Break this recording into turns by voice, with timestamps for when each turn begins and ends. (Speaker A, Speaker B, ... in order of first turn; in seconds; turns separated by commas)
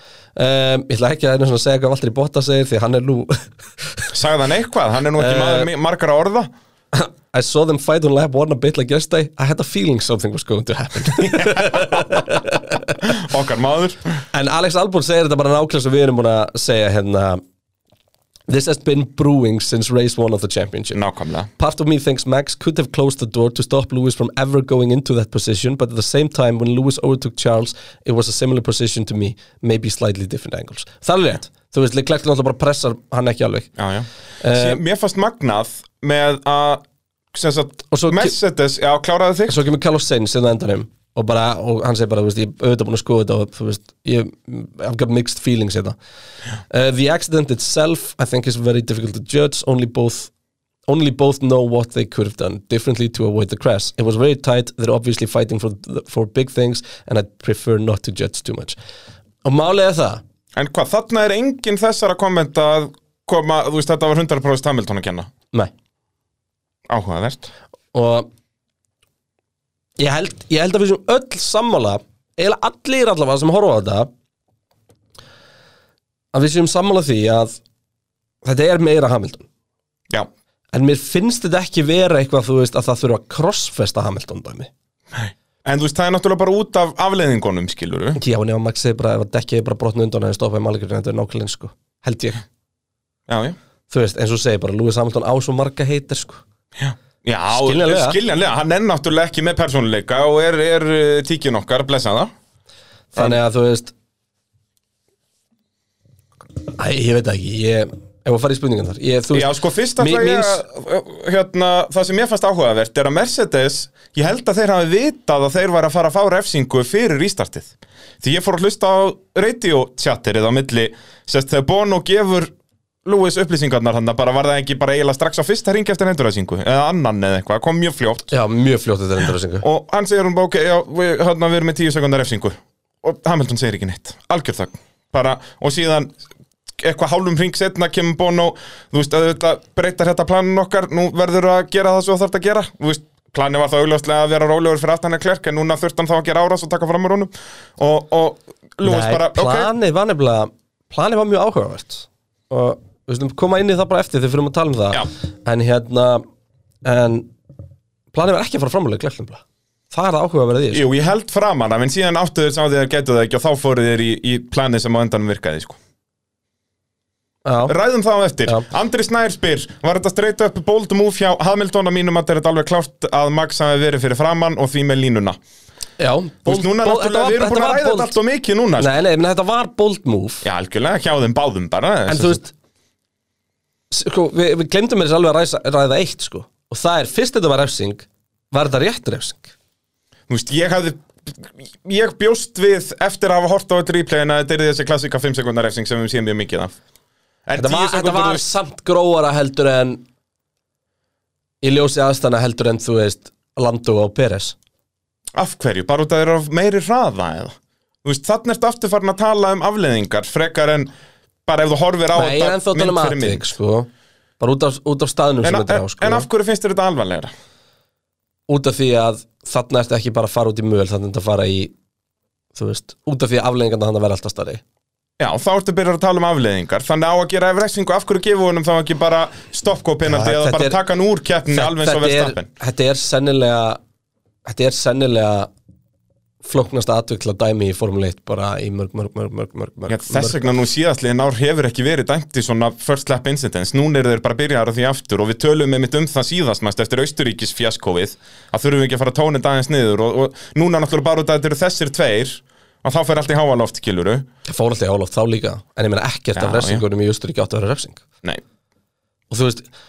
Speaker A: 0.3-4.0, Speaker B: 4.1-6.5, Speaker A: 5.2-5.7, Speaker A: 6.9-13.0, Speaker B: 11.2-12.2, Speaker B: 13.0-14.0, Speaker A: 14.3-17.4, Speaker A: 18.5-21.0, Speaker B: 20.9-21.5, Speaker A: 21.6-33.7, Speaker B: 33.8-39.6, Speaker A: 34.4-34.8, Speaker A: 37.9-38.3, Speaker A: 39.5-46.0, Speaker A: 46.7-50.3, Speaker A: 50.9-58.8, Speaker A: 59.4-60.2, Speaker B: 60.5-65.3, Speaker B: 66.9-67.5, Speaker A: 67.9-68.3, Speaker A: 70.0-74.1, Speaker A: 76.3-77.6, Speaker A: 78.4-79.5, Speaker A: 80.7-84.7, Speaker B: 85.1-88.2, Speaker A: 88.2-92.4, Speaker B: 93.3-93.6, Speaker A: 93.9-96.4, Speaker B: 96.8-102.3, Speaker A: 97.5-98.2, Speaker A: 103.1-103.9, Speaker A: 106.7-110.6, Speaker B: 109.3-122.5, Speaker B: 123.0-128.3, Speaker A: 128.3-129.6, Speaker B: 129.6-136.1, Speaker B: 136.8-149.7, Speaker A: 148.8-156.2, Speaker A: 156.8-157.3, Speaker A: 158.1-160.8, Speaker B: 160.7-165.8, Speaker A: 167.4-167.8, Speaker B: 167.7-175.4, Speaker A: 176.0-178.1, Speaker B: 176.4-178.9, Speaker A: 178.8-180.4, Speaker B: 180.4-182.4, Speaker A: 182.1-182.5, Speaker A: 183.9-189.5, Speaker B: 190.3-196.7, Speaker B: 197.5-198.4, Speaker A: 197.6-200.0, Speaker A: 201.6-204.6, Speaker B: 205.3-210.9, Speaker B: 211.4-213.5, Speaker A: 212.1-216.3, Speaker B: 215.4-217.3, Speaker A: 218.5-221.7, Speaker A: 222.5-224.6, Speaker B: 225.2-232.5, Speaker A: 230.1-230.8, Speaker A: 231.5-233.8, Speaker A: 234.4-235.5, Speaker A: 236.4-240.5, Speaker B: 239.9-254.2, Speaker A: 254.4-258.0, Speaker B: 256.3-256.8, Speaker A: 259.3-259.6